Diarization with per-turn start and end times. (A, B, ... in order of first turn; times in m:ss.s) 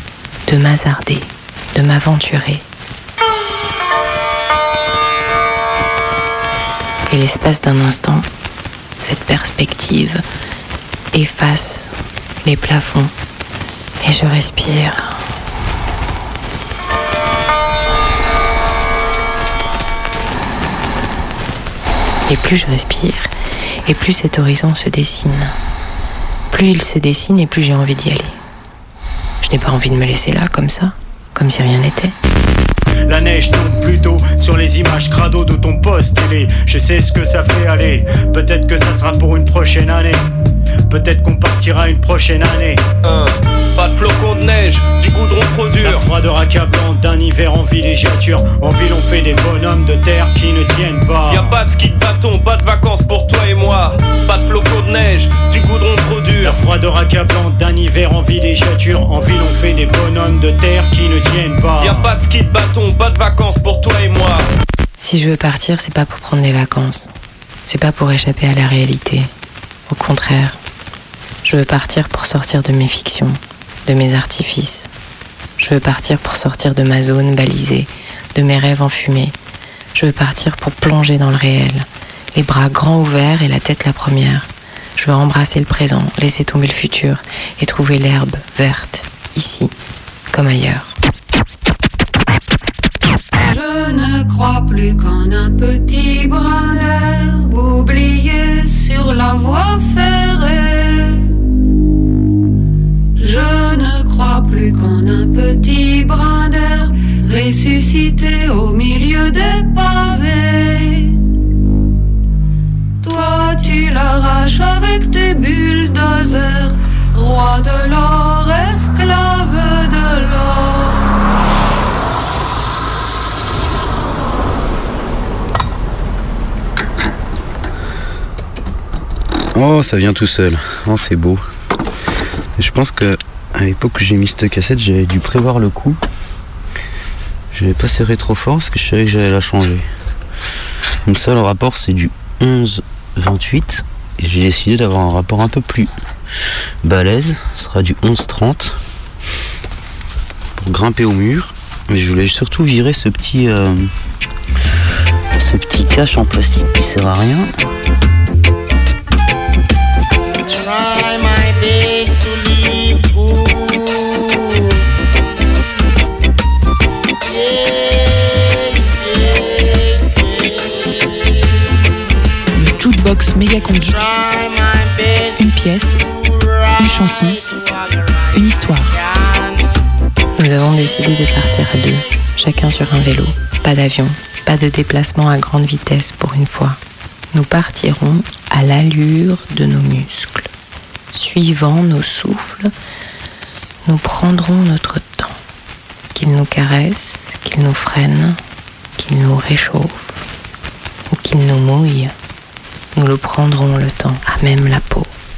0:00.5-0:02.6 A
0:07.1-0:08.3 A
0:09.0-0:10.2 A
0:11.1-0:13.1 A
0:14.0-0:15.2 A
0:22.3-0:23.3 A
0:23.8-0:25.6 A
0:26.5-0:28.4 A
0:29.4-0:32.2 A
0:33.1-0:40.3 B
0:40.9-0:42.8 B
0:43.0-0:46.0 C
0:45.8-0:51.6 B
0:51.3-0:56.6 C
0:56.4-1:02.1 B
1:01.8-1:04.5 C
1:05.0-1:07.1 A
1:07.6-1:09.3 A
1:09.9-1:10.6 A
1:11.4-1:14.9 A
1:15.6-1:19.3 A
1:20.0-1:29.7 A
1:30.3-1:30.9 A
1:33.4-1:41.3 D
1:43.2-1:51.2 D
1:53.0-2:01.0 D
2:09.6-2:11.4 E
2:12.6-2:16.0 E
2:17.6-2:19.8 E
2:21.1-2:25.9 E
2:26.8-2:28.7 E
2:30.7-2:33.8 E
2:35.4-2:37.5 E
2:52.6-2:54.1 F
2:55.4-2:56.0 F
2:56.8-2:57.4 F
2:58.3-2:59.0 F
3:00.4-3:06.8 A
3:07.3-3:10.5 A
3:11.1-3:12.7 A
3:13.8-3:15.4 A
3:16.1-3:18.4 A
3:19.0-3:20.2 A
3:21.1-3:22.1 A
3:23.0-3:25.1 A